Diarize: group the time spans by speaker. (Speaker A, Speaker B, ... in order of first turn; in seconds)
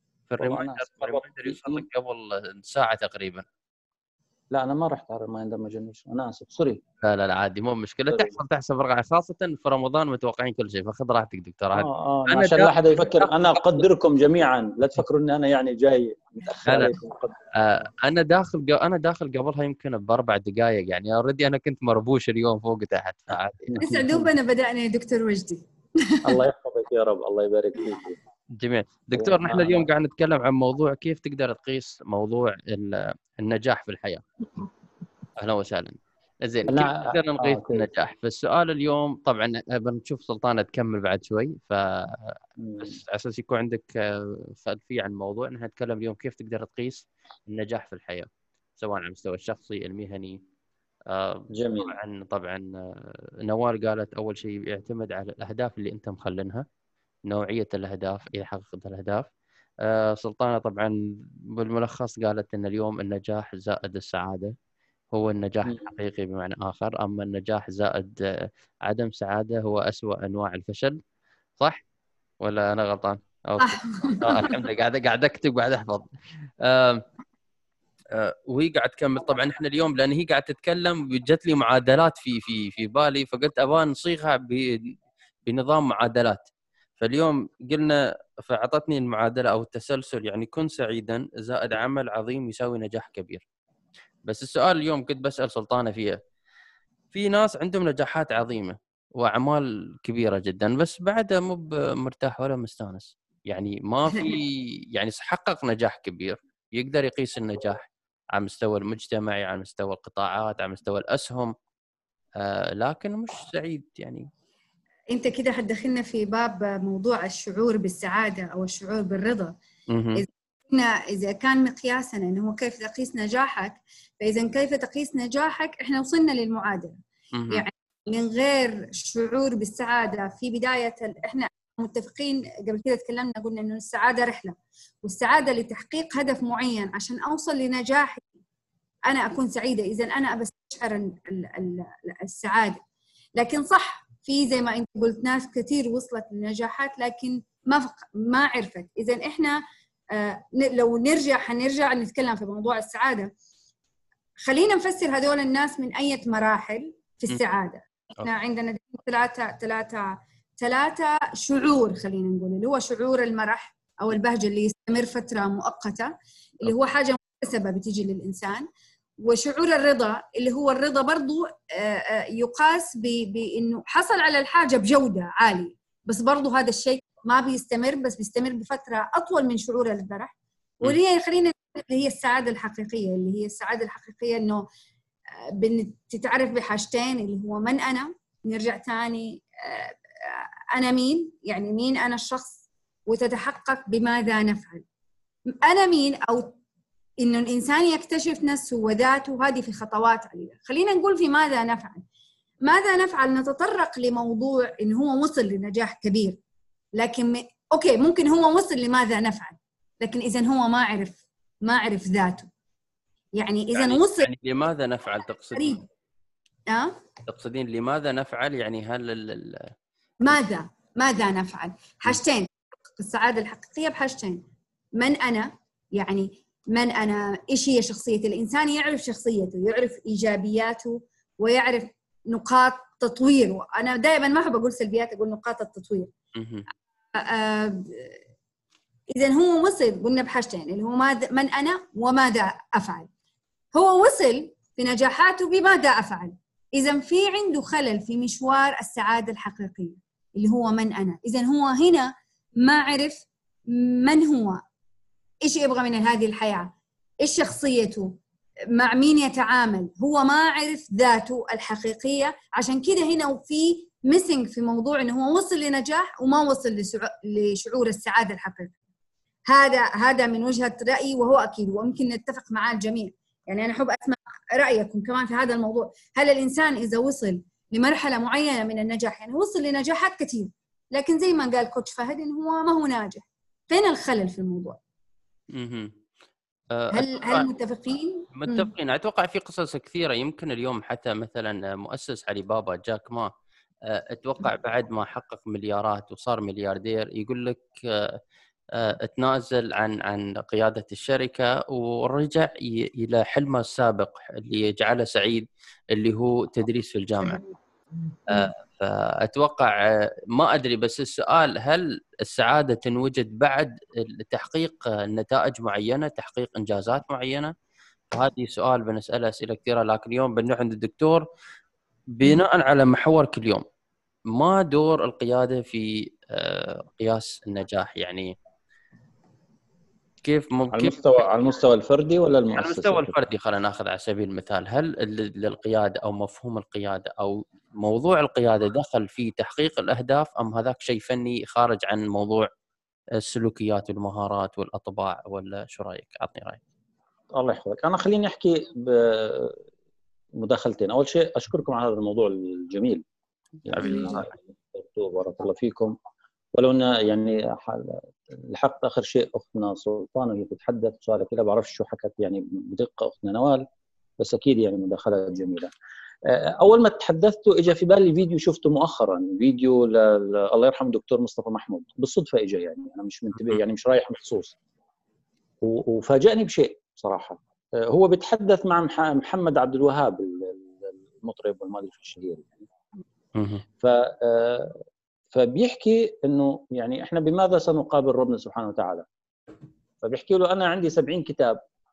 Speaker A: 0.3-3.4, 7.0-13.3, 16.6-16.9, 17.6-24.3, 28.6-34.2, 35.4-50.4, 51.1-56.6, 57.3-59.3, 59.8-61.0, 61.5-64.5, 65.1-71.0, 72.4-76.1, 76.6-77.0, 78.1-84.8, 85.5-86.5, 87.0-93.4, 94.3-96.2, 97.1-111.5, 112.4-114.3, 119.9-120.2, 127.3-127.6, 213.7-215.8, 217.3-219.7, 236.3-236.6, 285.5-285.9, 286.7-287.5, 288.3-293.3, 293.9-298.2, 298.7-307.4, 308.3-317.5, 318.1-321.2, 322.1-323.6, 324.3-328.3, 330.2-331.2, 332.5-342.5, 343.2-346.6, 353.6-354.3, 383.4-383.6
Speaker B: 0.4-1.8, 4.5-6.8, 11.7-17.4, 23.7-24.3, 26.2-28.2, 29.1-29.9, 36.7-37.9, 42.6-43.0, 51.5-52.0, 330.7-333.1, 347.3-349.6, 350.4-353.0, 353.7-355.9, 356.5-363.6, 364.2-365.7, 366.2-374.5, 375.6-382.7, 383.8-384.7, 385.3-389.1, 390.0-391.6
Speaker C: 23.8-26.4, 73.6-74.6, 115.1-119.6, 120.1-127.0, 127.5-138.2, 139.1-142.8, 143.3-149.6, 150.1-153.3, 154.4-168.7, 169.2-184.7, 185.5-194.8, 195.5-196.5, 197.2-202.0, 202.6-206.4, 206.9-212.5, 213.3-214.3, 215.5-215.8, 216.7-217.0, 220.2-224.4, 225.0-236.1, 237.1-238.2, 239.1-243.1, 243.7-254.6, 255.4-258.1, 258.7-268.7, 269.5-284.8, 286.9-288.7